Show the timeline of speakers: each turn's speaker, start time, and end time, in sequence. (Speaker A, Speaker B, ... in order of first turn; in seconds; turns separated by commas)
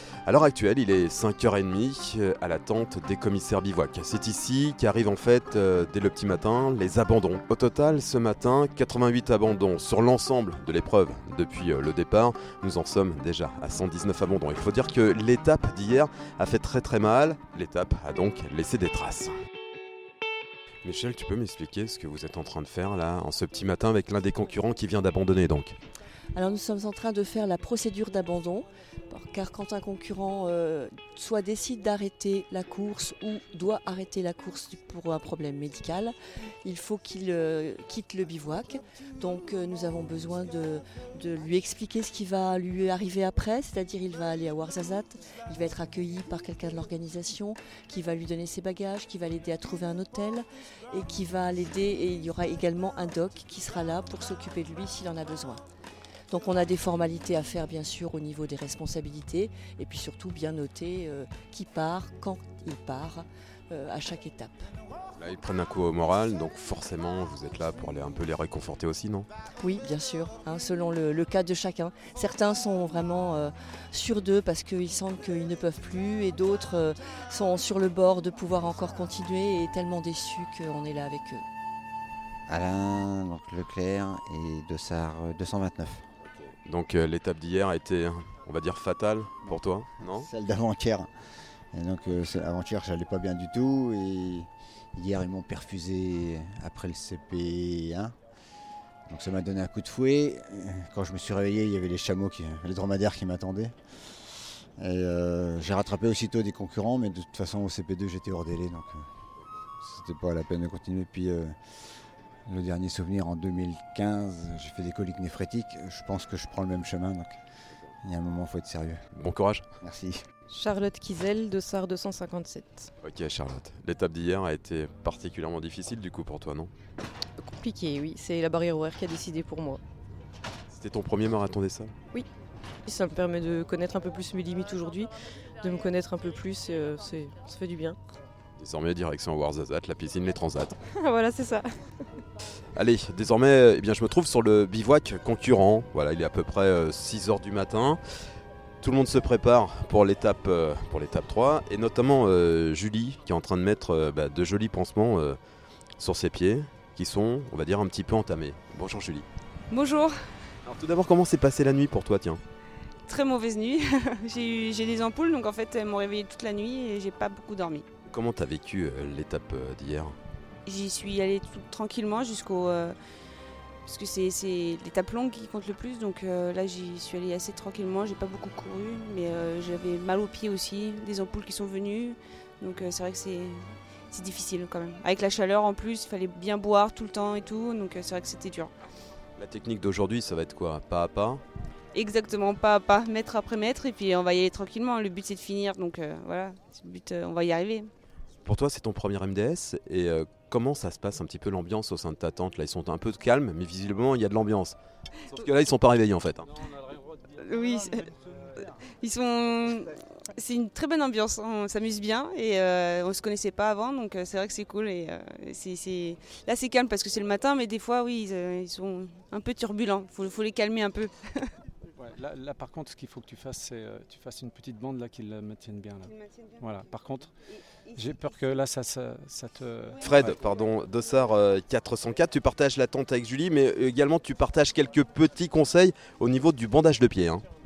Speaker A: 0.2-19.3, Speaker A: 20.8-25.8, Speaker B: 26.3-55.6, Speaker B: 56.3-64.6, Speaker A: 65.2-69.3, Speaker B: 69.6-81.4, Speaker C: 82.5-86.0, Speaker A: 86.6-90.3, Speaker C: 90.1-91.1, Speaker C: 91.7-98.2, Speaker C: 99.1-103.7, Speaker C: 104.8-109.0, Speaker C: 109.8-111.5, Speaker C: 112.5-117.4, Speaker C: 118.0-119.0, Speaker A: 119.2-119.6, Speaker C: 119.8-120.2, Speaker D: 120.5-122.9, Speaker A: 123.0-126.7, Speaker D: 127.4-129.8, Speaker A: 130.7-131.9, Speaker D: 132.8-135.1, Speaker D: 135.6-138.0, Speaker A: 138.6-140.8, Speaker D: 140.9-141.7, Speaker A: 142.7-148.0, Speaker A: 148.8-155.4, Speaker A: 156.0-159.2, Speaker E: 159.7-160.1, Speaker A: 160.6-162.4, Speaker E: 163.1-167.8, Speaker A: 168.1-170.2, Speaker E: 170.7-172.9, Speaker E: 173.8-188.7, Speaker A: 189.4-191.4, Speaker E: 191.9-197.9, Speaker A: 198.4-204.8, Speaker A: 205.3-206.5, Speaker E: 207.3-221.5, Speaker F: 222.0-227.3, Speaker F: 227.9-230.3, Speaker A: 230.0-237.4